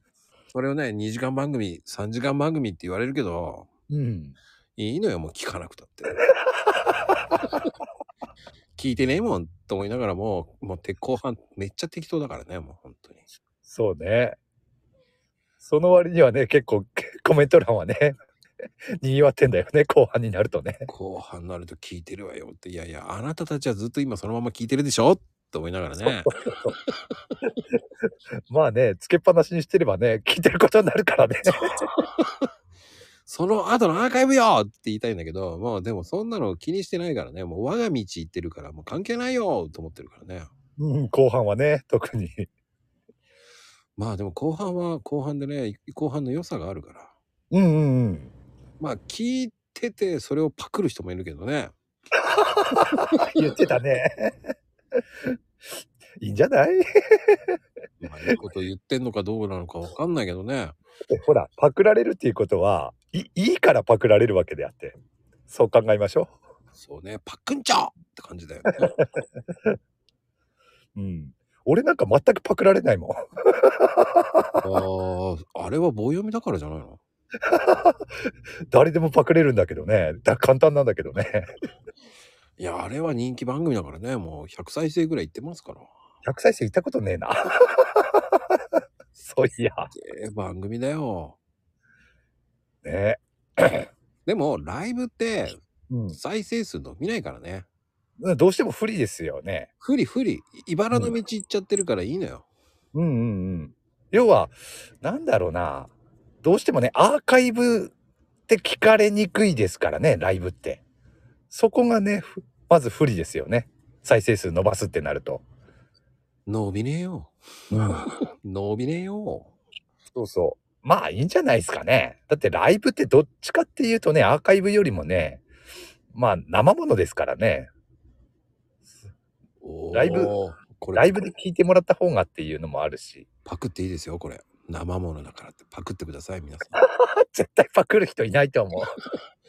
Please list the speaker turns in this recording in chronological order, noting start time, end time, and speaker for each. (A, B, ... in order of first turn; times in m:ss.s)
0:00.5-0:03.7 A
0:03.9-0:04.4 B
0:04.8-0:06.2 A
0:06.2-0:07.0 B
0:08.8-0:13.3 A
0:13.7-0:14.4 B
0:15.6-0:18.2 B
0:19.0-0:20.9 B
0:20.9-0:26.3 A
0:26.0-0:26.8 B
0:28.5-0:31.9 B
0:31.8-0:32.5 A
0:33.3-0:40.5 A
0:40.8-0:42.5 B
0:44.0-0:47.1 A
0:47.5-0:48.3 B
0:48.8-0:51.7 A
0:52.2-0:54.5 B
0:52.8-0:53.0 A
0:56.2-0:57.6 B
0:58.0-1:00.8 A
1:01.1-1:05.0 B
1:05.5-1:06.3 B
1:06.8-1:08.9 A
1:11.0-1:14.6 B
1:14.6-1:17.0 A
1:17.5-1:18.2 B
1:18.7-1:21.5 B
1:22.6-1:25.9 A
1:26.2-1:28.6 B
1:29.2-1:29.9 B
1:29.9-1:31.4 A
1:32.8-1:33.9 B
1:34.3-1:35.6 A
1:35.9-1:36.2 B
1:36.1-1:37.7 A
1:38.2-1:39.7 B
1:39.8-1:42.5 A
1:40.9-1:41.2 B
1:42.9-1:45.9 B
1:46.4-1:47.9 B
1:48.5-1:50.8 B
1:51.5-1:55.4 B
1:56.5-1:59.5 A
1:57.7-1:58.1 B
2:00.2-2:05.4 B
2:06.1-2:07.7 B
2:09.6-2:11.2 A
2:09.9-2:10.3 B
2:10.9-2:13.3 B
2:13.5-2:16.8 A
2:16.8-2:19.0 B